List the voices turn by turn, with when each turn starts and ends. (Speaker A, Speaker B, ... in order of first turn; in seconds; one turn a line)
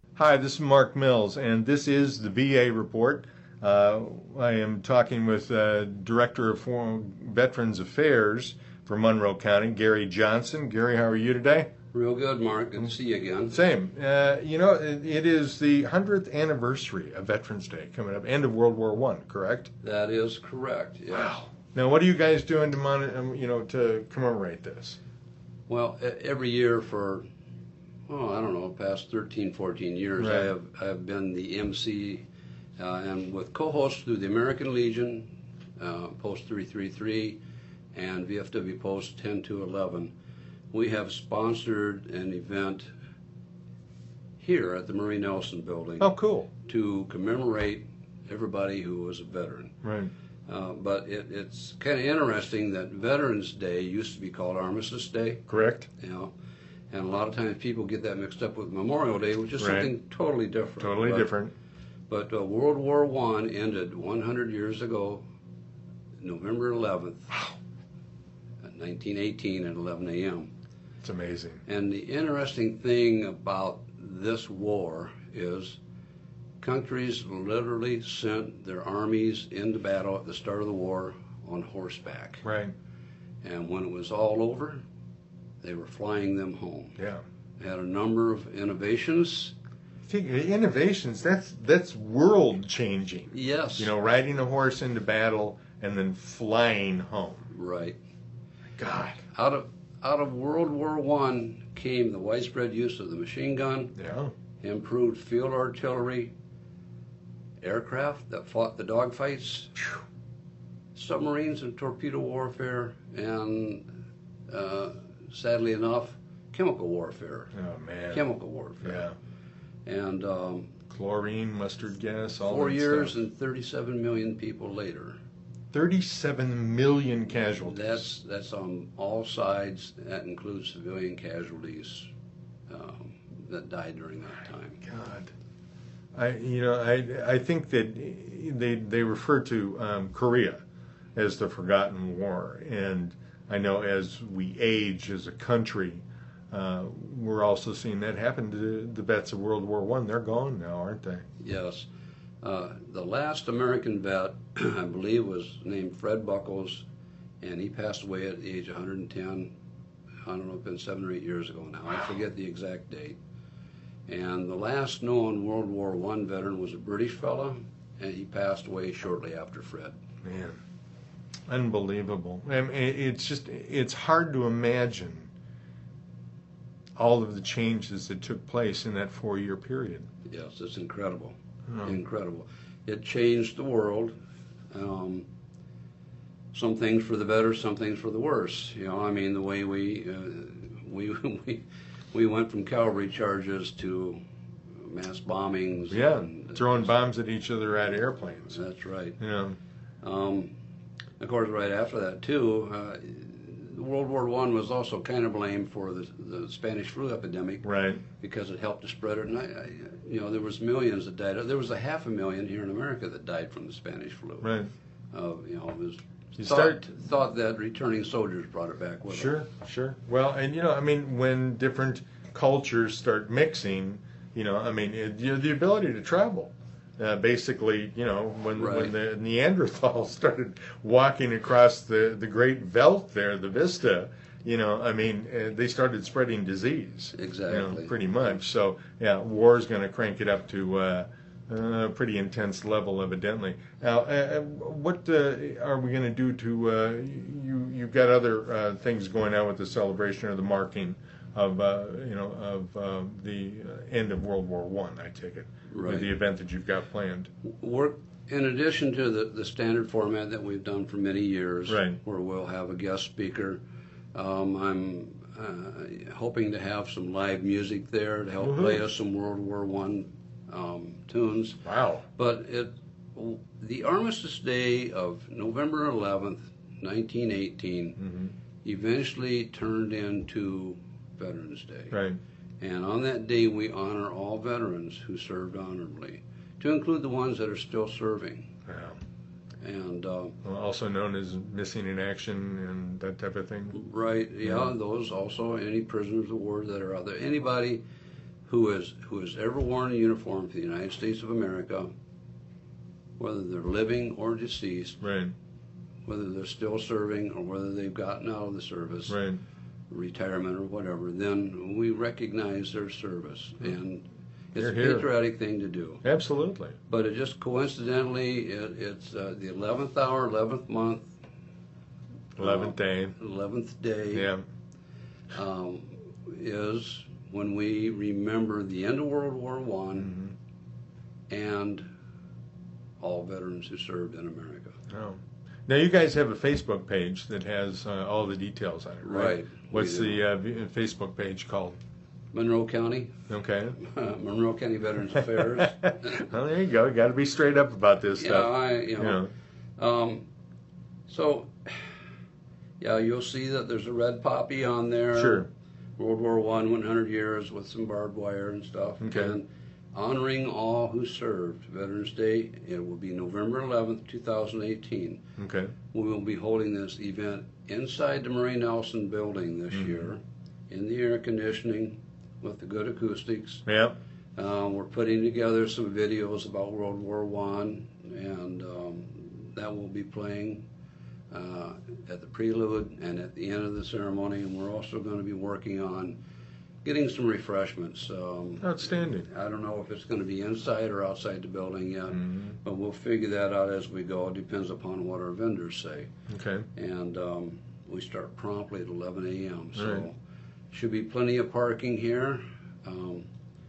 Speaker A: 0.2-11.7
Speaker B: 11.9-13.6
Speaker A: 13.5-19.7
Speaker B: 19.8-21.5
Speaker A: 21.1-25.0
Speaker B: 25.7-27.2
Speaker B: 28.1-32.2
Speaker A: 30.2-30.5
Speaker B: 32.8-37.4
Speaker B: 37.9-40.1
Speaker B: 40.7-42.9
Speaker B: 44.4-49.8
Speaker A: 46.0-46.5
Speaker A: 49.8-50.1
Speaker B: 50.5-55.4
Speaker A: 55.5-55.9
Speaker B: 56.0-56.3
Speaker B: 56.9-61.3
Speaker A: 59.6-59.9
Speaker A: 60.8-61.5
Speaker B: 62.1-65.2
Speaker B: 66.2-67.4
Speaker B: 68.6-70.5
Speaker A: 71.0-71.6
Speaker B: 71.7-75.8
Speaker B: 76.6-82.4
Speaker A: 82.4-82.7
Speaker B: 83.4-84.8
Speaker B: 85.6-87.0
Speaker A: 87.0-87.2
Speaker B: 87.6-89.5
Speaker A: 90.1-97.5
Speaker B: 93.3-93.9
Speaker B: 97.5-98.0
Speaker A: 98.8-99.2
Speaker B: 99.3-103.9
Speaker A: 104.0-104.3
Speaker B: 104.6-106.3
Speaker B: 107.6-109.8
Speaker B: 111.0-113.9
Speaker B: 114.5-117.5
Speaker A: 117.5-118.3
Speaker B: 118.1-119.1
Speaker A: 118.8-119.1
Speaker B: 119.9-120.7
Speaker A: 120.9-123.2
Speaker B: 122.4-125.2
Speaker A: 125.7-128.0
Speaker B: 127.7-132.1
Speaker B: 132.7-134.8
Speaker A: 134.8-135.3
Speaker A: 136.1-140.6
Speaker A: 141.2-151.2
Speaker B: 151.4-151.9
Speaker B: 152.4-156.9
Speaker B: 157.4-159.5
Speaker B: 160.2-163.2
Speaker B: 164.1-170.0
Speaker A: 170.2-170.6
Speaker A: 171.5-175.3
Speaker A: 177.0-180.1
Speaker B: 180.3-184.2
Speaker A: 181.7-181.9
Speaker B: 184.7-185.3
Speaker B: 186.5-194.2
Speaker B: 194.7-196.9
Speaker A: 195.9-198.6
Speaker B: 198.5-199.2
Speaker A: 199.2-199.6
Speaker B: 200.0-200.5
Speaker B: 201.2-207.7
Speaker A: 207.6-208.0
Speaker B: 208.2-214.5
Speaker A: 214.4-214.7
Speaker B: 215.1-219.4
Speaker A: 216.4-216.8
Speaker A: 219.1-257.3
Speaker B: 228.6-228.9
Speaker B: 237.2-237.9
Speaker B: 255.7-256.1
Speaker B: 257.5-263.6
Speaker A: 261.7-262.0
Speaker B: 264.1-271.6
Speaker A: 268.4-268.9
Speaker A: 271.6-272.0
Speaker B: 272.2-278.0
Speaker A: 278.0-278.3
Speaker B: 278.6-282.0
Speaker A: 281.9-282.2
Speaker B: 282.6-288.5
Speaker A: 288.7-289.0
Speaker B: 289.6-290.4
Speaker A: 290.4-293.8
Speaker B: 293.7-297.8
Speaker A: 294.4-294.7
Speaker B: 298.5-301.9
Speaker B: 303.2-305.0
Speaker A: 305.0-305.3
Speaker B: 306.1-309.2
Speaker A: 309.1-309.4
Speaker B: 309.9-316.0
Speaker A: 314.6-315.1
Speaker A: 316.0-316.8
Speaker B: 316.9-321.1
Speaker B: 322.4-324.3
Speaker A: 322.4-323.1
Speaker A: 324.1-324.4
Speaker B: 325.4-330.1
Speaker A: 330.0-330.3
Speaker B: 331.3-331.9
Speaker B: 333.0-334.8
Speaker A: 334.9-341.8
Speaker B: 339.0-340.2
Speaker B: 342.3-343.2
Speaker A: 343.3-343.8
Speaker B: 343.8-346.2
Speaker A: 345.6-349.3
Speaker B: 348.2-349.2
Speaker B: 349.8-350.2
Speaker B: 351.1-351.9
Speaker B: 352.8-355.5
Speaker A: 355.1-355.5
Speaker B: 356.0-365.2
Speaker A: 359.0-359.4
Speaker A: 365.4-365.7
Speaker B: 365.9-373.6
Speaker A: 373.7-374.0
Speaker B: 374.4-380.6
Speaker B: 381.3-386.2
Speaker B: 386.8-396.1
Speaker A: 388.6-389.3
Speaker A: 392.1-392.5
Speaker A: 396.3-396.7
Speaker B: 396.8-400.1
Speaker A: 399.8-400.1
Speaker B: 400.7-403.3